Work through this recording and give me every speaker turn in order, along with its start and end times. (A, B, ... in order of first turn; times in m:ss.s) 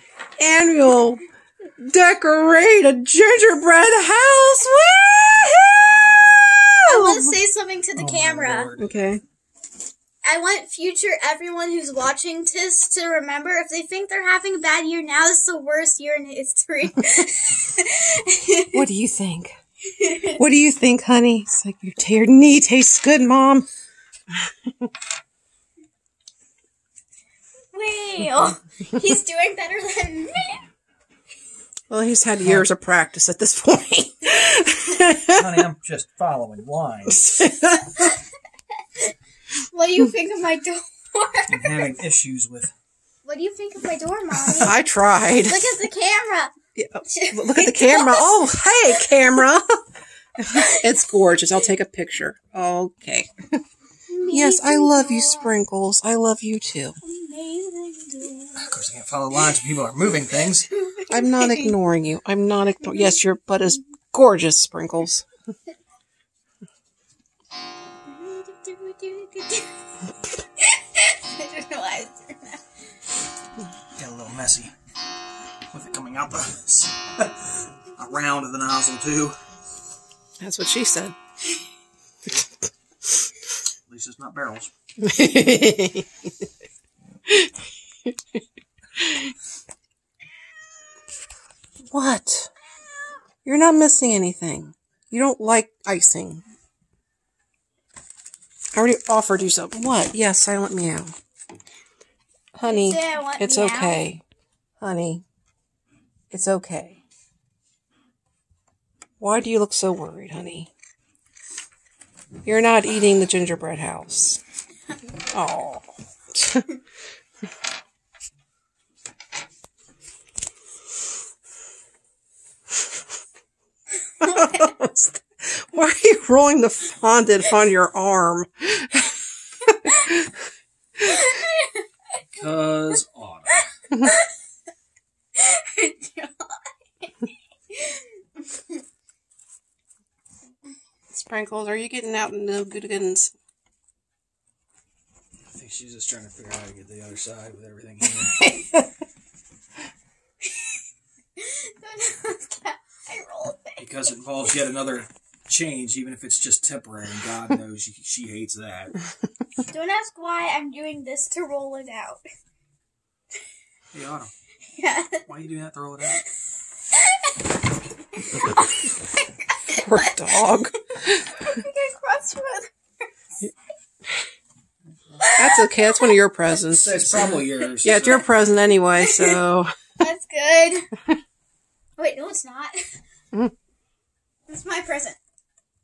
0:00.4-0:01.2 A
0:01.8-0:07.4 A
0:06.9-0:08.7 B
0:08.0-0:08.9 C
0:08.8-0:09.2 A
0:10.2-0:18.8 B
0:18.7-0:19.5 A
0:19.9-0:20.4 B
0:20.4-0:23.7 A
0:27.7-0:30.6 B
0:31.9-0:35.5 A
0:35.3-0:37.3 C
0:37.1-0:38.1 A
0:37.8-0:38.2 B
0:39.7-0:41.9 B
0:41.5-0:42.7 C
0:43.2-0:44.8 B
0:44.6-0:45.6 A
0:45.4-0:46.5 B
0:46.8-0:49.7 A
0:47.1-0:49.1 B
0:50.4-0:53.3 A
0:50.5-0:50.9 B
0:54.1-0:55.6 B
0:54.3-0:57.0 A
0:57.0-0:58.6 B
0:58.6-1:00.7 C
1:00.7-1:01.8 B
1:01.1-1:05.3 A
1:02.9-1:03.2 B
1:08.1-1:09.7 B
1:10.6-1:12.6 B
1:14.0-1:14.7 C
1:15.7-1:19.4 C
1:20.4-1:21.2 A
1:23.9-1:24.7 C
1:25.0-1:26.1 A
1:31.9-1:32.5 A
1:33.4-1:36.4 A
1:38.8-1:41.1 A
1:42.6-1:44.2 A
1:42.7-1:44.0 B
1:44.8-1:45.2 A
1:46.3-1:47.0 A
1:49.2-1:50.7 A
1:52.5-1:54.4 A
1:55.3-1:56.7 A
2:04.2-2:09.1 A
2:09.7-2:10.3 A
2:11.0-2:11.8 B
2:12.3-2:13.7 C
2:13.9-2:14.3 B
2:15.4-2:18.1 B
2:21.1-2:23.3 A
2:25.5-2:28.4 C
2:28.4-2:28.7 A
2:31.4-2:33.8 B
2:33.8-2:39.0 C
2:39.7-2:42.2 B
2:43.9-2:44.3 C
2:44.7-2:45.3 B
2:45.3-2:46.2 C
2:46.9-2:47.4 B
2:48.1-2:50.6 B
2:49.8-2:51.3 A
2:51.4-2:52.7 B
2:55.2-2:56.2 B
2:55.4-2:59.7 A
2:56.5-2:58.3 C
2:57.9-2:58.2 B
2:59.0-2:59.4 B
3:00.0-3:00.8 B
3:02.0-3:02.7 B
3:04.5-3:05.2 B